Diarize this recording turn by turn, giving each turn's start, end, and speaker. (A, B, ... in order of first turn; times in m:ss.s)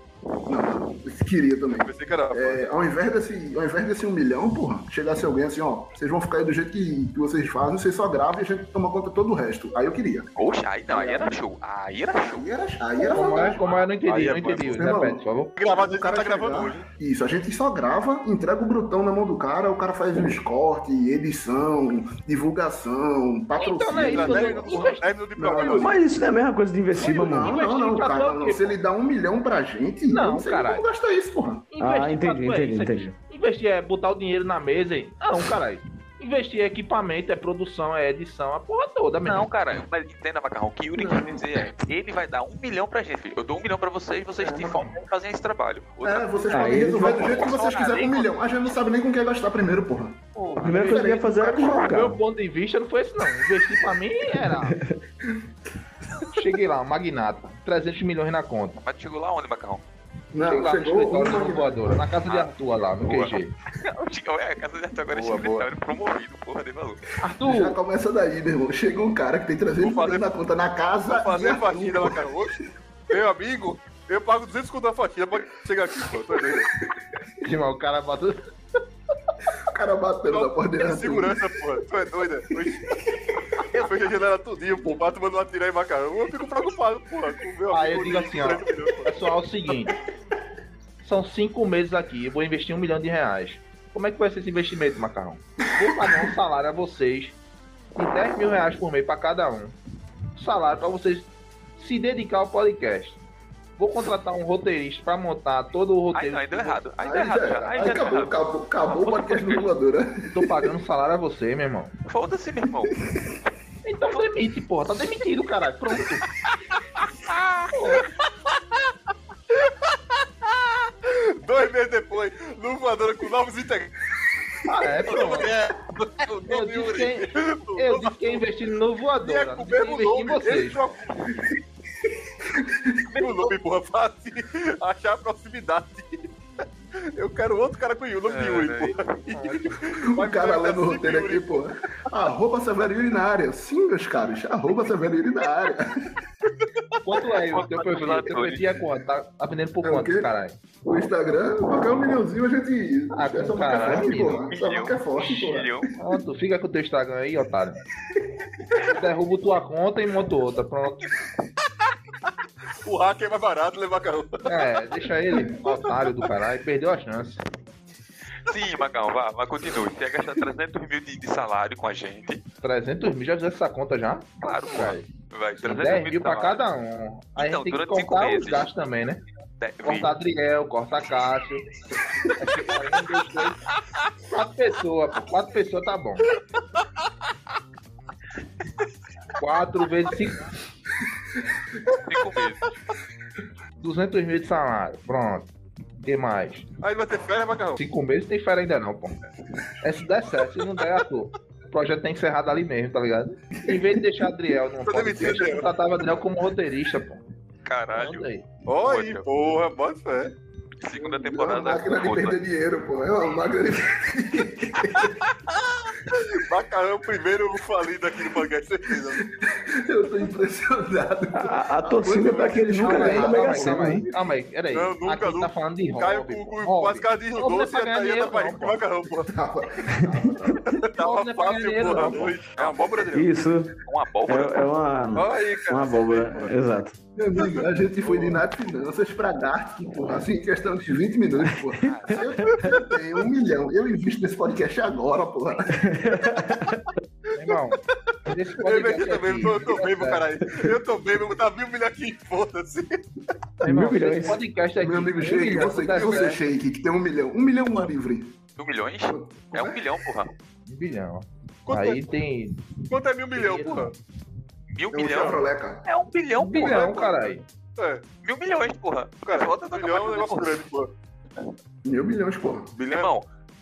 0:00.5-0:10.3 A
0:01.8-0:02.7 B
0:10.4-0:12.4 C
0:10.9-0:11.3 D
0:12.1-0:13.6 A
0:13.0-0:15.5 D
0:13.4-0:14.8 B
0:14.6-0:26.2 A
0:15.6-0:16.8 B
0:23.5-0:25.1 D
0:23.9-0:26.0 B
0:25.7-0:27.6 E
0:27.0-0:31.7 A
0:27.0-0:28.8 D
0:30.1-0:30.8 D
0:31.7-0:39.5 D
0:31.8-0:33.1 E
0:39.2-0:48.2 C
0:41.2-0:41.4 A
0:44.4-0:45.0 D
0:46.0-0:51.9 A
0:46.5-0:47.4 E
0:47.2-0:48.3 D
0:50.4-0:54.8 D
0:50.6-0:52.2 E
0:54.4-0:55.0 E
0:56.3-0:58.8 D
0:58.8-0:59.8 C
1:00.3-1:02.0 A
1:00.4-1:03.5 D
1:02.3-1:07.0 C
1:05.1-1:05.7 B
1:07.2-1:07.8 D
1:07.4-1:12.2 A
1:09.8-1:10.3 B
1:11.0-1:16.8 B
1:17.4-1:18.4 D
1:19.6-1:21.5 A
1:20.3-1:22.9 B
1:22.5-1:22.8 A
1:23.6-1:29.2 B
1:27.7-1:30.0 D
1:31.0-1:37.4 D
1:37.9-1:39.8 D
1:40.4-1:43.2 D
1:43.8-1:46.8 D
1:46.1-1:49.7 C
1:47.0-1:50.7 A
1:47.4-1:48.1 D
1:50.3-1:51.9 D
1:52.1-1:53.0 C
1:53.8-1:56.2 D
1:57.7-1:58.1 D
1:57.8-1:58.9 B
1:59.5-2:04.0 B
2:04.6-2:05.5 D
2:05.0-2:11.4 B
2:05.1-2:05.5 C
2:06.4-2:11.0 D
2:12.5-2:13.1 A
2:13.1-2:16.3 B
2:17.0-2:21.7 B
2:18.3-2:19.2 C
2:19.3-2:19.8 D
2:19.8-2:26.2 A
2:27.0-2:30.6 D
2:27.4-2:28.8 C
2:29.8-2:30.3 A
2:30.8-2:35.8 A
2:33.1-2:34.5 D
2:33.7-2:35.9 C
2:36.0-2:37.8 D
2:38.9-2:41.1 D
2:42.8-2:44.8 B
2:44.4-2:47.4 D
2:45.6-2:46.0 B
2:48.4-2:52.4 C
2:52.6-2:59.2 D
2:54.4-2:56.6 C
2:57.4-2:58.7 C
2:59.6-3:00.1 C
2:59.8-3:01.6 D
3:02.4-3:03.6 D
3:04.3-3:06.3 D
3:09.4-3:10.5 D
3:12.0-3:12.6 C
3:13.8-3:16.6 D
3:16.8-3:17.8 B
3:17.8-3:19.2 D
3:19.8-3:27.2 D
3:24.8-3:25.7 B
3:27.6-3:29.3 C
3:27.9-3:28.4 D
3:28.6-3:30.3 B
3:30.8-3:32.4 C
3:30.9-3:35.2 A
3:36.1-3:39.2 B
3:39.4-3:44.2 A
3:41.3-3:44.1 E
3:42.7-3:48.8 D
3:44.7-3:49.3 B
3:49.3-3:50.7 A
3:50.7-3:53.3 B
3:50.9-3:52.4 D
3:52.6-3:53.2 C
3:53.1-3:53.8 E
3:53.8-3:54.7 C
3:54.3-3:57.0 E
3:55.1-3:56.5 B
3:57.2-4:06.0 A
3:57.4-3:58.4 B
4:01.5-4:02.8 E
4:01.8-4:02.6 C
4:05.8-4:06.9 E
4:07.3-4:10.2 D
4:08.6-4:13.0 B
4:13.6-4:16.4 D
4:13.6-4:14.4 E
4:14.8-4:18.4 A
4:15.9-4:16.4 B
4:18.6-4:20.3 C
4:19.1-4:19.9 A
4:20.6-4:22.7 D
4:21.6-4:22.0 B
4:22.9-4:23.9 B
4:23.3-4:23.9 D
4:24.7-4:27.4 C
4:24.9-4:25.8 A
4:25.0-4:25.4 B
4:26.4-4:27.4 D
4:27.8-4:28.0 B
4:28.2-4:30.6 C
4:29.2-4:30.9 B
4:31.8-4:32.7 A
4:32.8-4:33.1 B
4:32.8-4:33.3 C